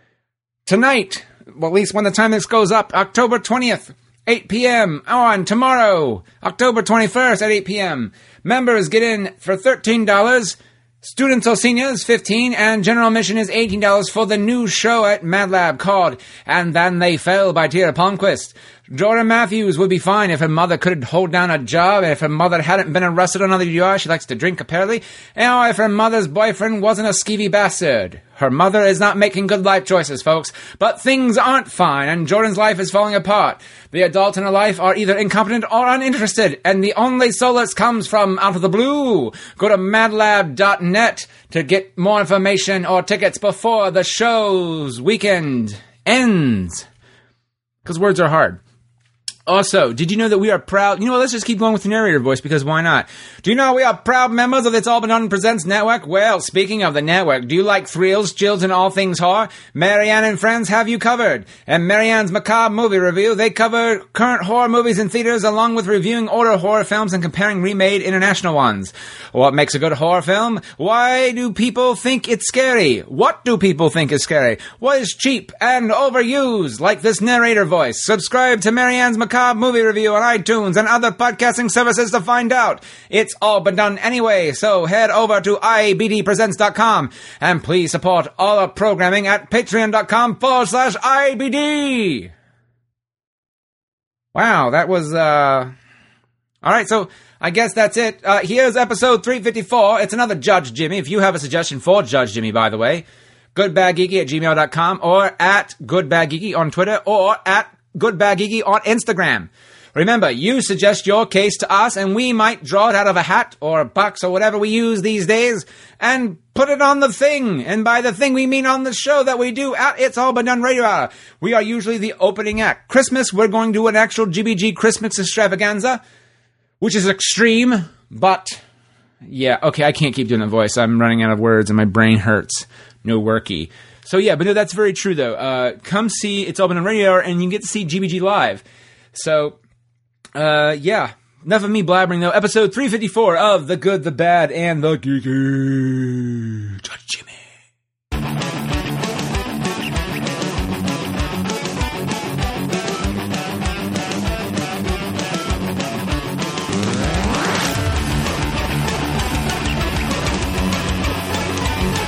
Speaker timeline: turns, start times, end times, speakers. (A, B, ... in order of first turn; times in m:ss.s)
0:00.6-0:46.8 A
0:47.8-0:48.6 A
0:49.4-1:32.3 A
1:34.3-1:35.7 A
1:36.6-2:06.0 A
2:06.8-2:08.6 A
2:09.2-2:18.6 A
2:19.1-2:19.6 A
2:20.4-2:27.4 A